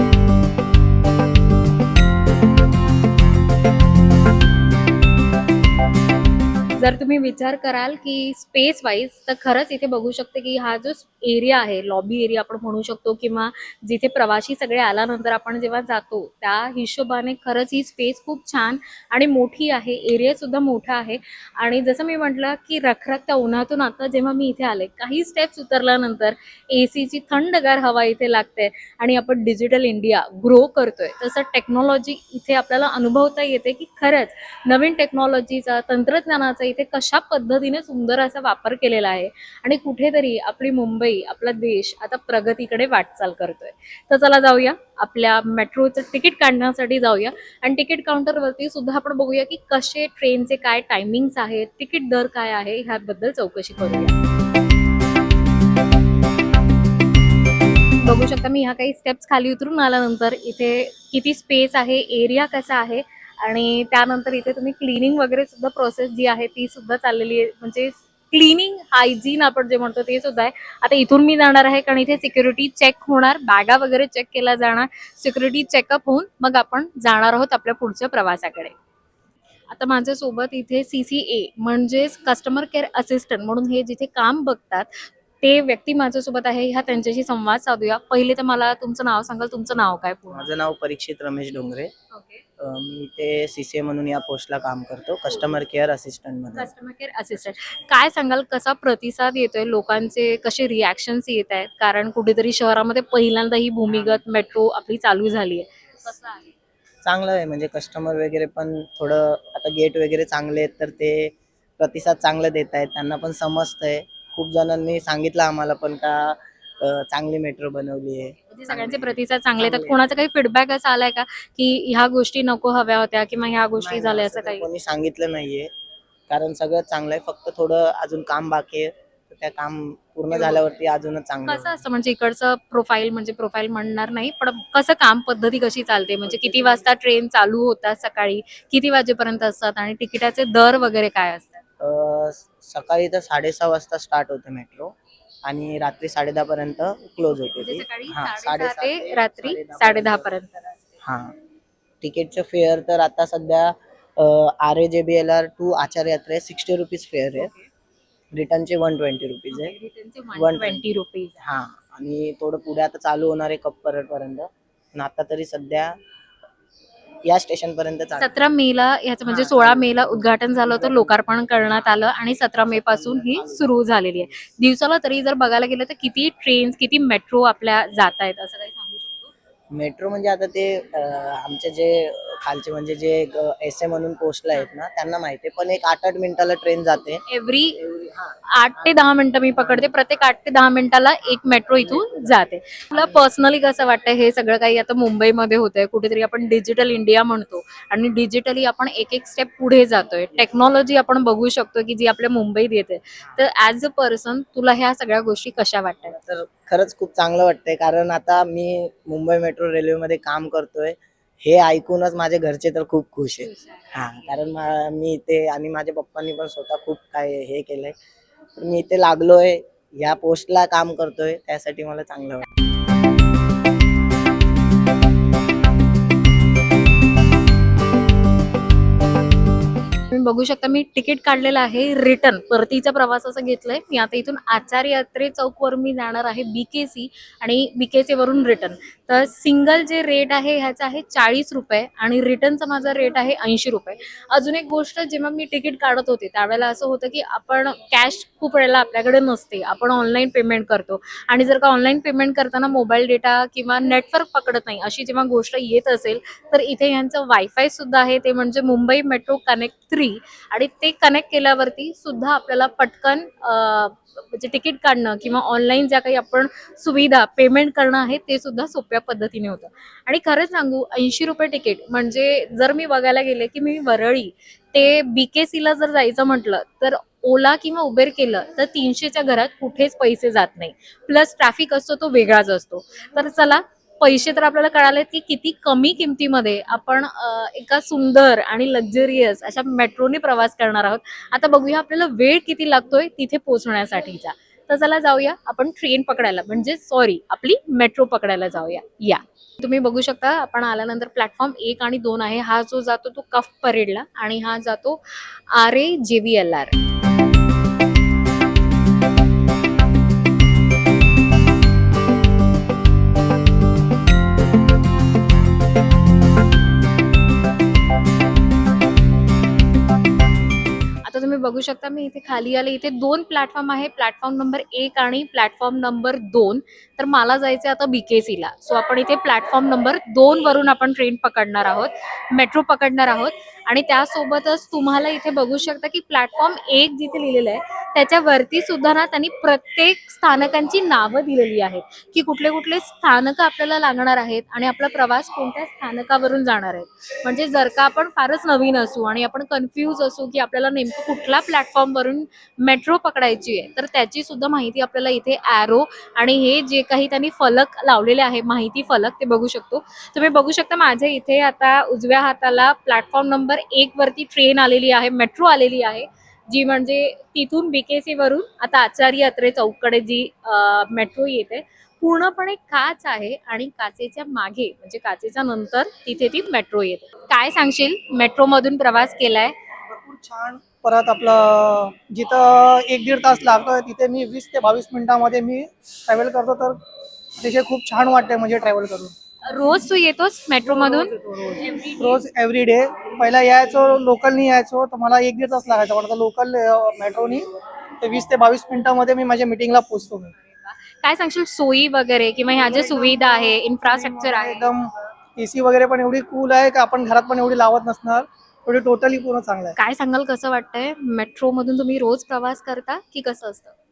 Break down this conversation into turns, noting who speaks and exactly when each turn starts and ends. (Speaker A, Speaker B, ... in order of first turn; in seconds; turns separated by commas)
Speaker A: 6.8-54.1, Speaker A: 58.0-78.7, Speaker A: 79.7-90.5, Speaker B: 90.3-91.9, Speaker A: 92.1-92.4, Speaker B: 92.6-96.7, Speaker A: 96.5-106.5, Speaker B: 103.9-104.2, Speaker B: 107.0-120.0, Speaker A: 118.5-124.7, Speaker B: 123.8-125.7, Speaker B: 126.3-131.8, Speaker A: 131.4-141.6, Speaker B: 136.2-136.8, Speaker B: 141.8-150.3, Speaker A: 147.5-151.0, Speaker B: 151.0-151.3, Speaker B: 152.0-157.5, Speaker A: 157.3-157.7, Speaker B: 158.3-159.8, Speaker A: 159.5-161.3, Speaker B: 160.3-160.8, Speaker B: 161.4-165.9, Speaker B: 167.2-168.3, Speaker A: 168.2-179.3, Speaker B: 169.2-171.2, Speaker B: 172.7-173.7, Speaker B: 179.7-187.2, Speaker A: 187.3-187.8, Speaker B: 187.8-188.8, Speaker A: 188.6-206.2, Speaker B: 189.6-190.0, Speaker B: 191.8-192.4, Speaker B: 192.9-193.2, Speaker B: 206.1-217.9, Speaker A: 213.4-214.2, Speaker B: 218.5-222.4, Speaker A: 230.1-306.7, Speaker A: 321.0-379.5, Speaker C: 379.9-386.8, Speaker C: 387.4-389.1, Speaker A: 389.5-392.2, Speaker C: 390.6-397.5, Speaker C: 398.0-400.3, Speaker A: 400.4-404.7, Speaker C: 402.5-409.7, Speaker A: 409.8-413.7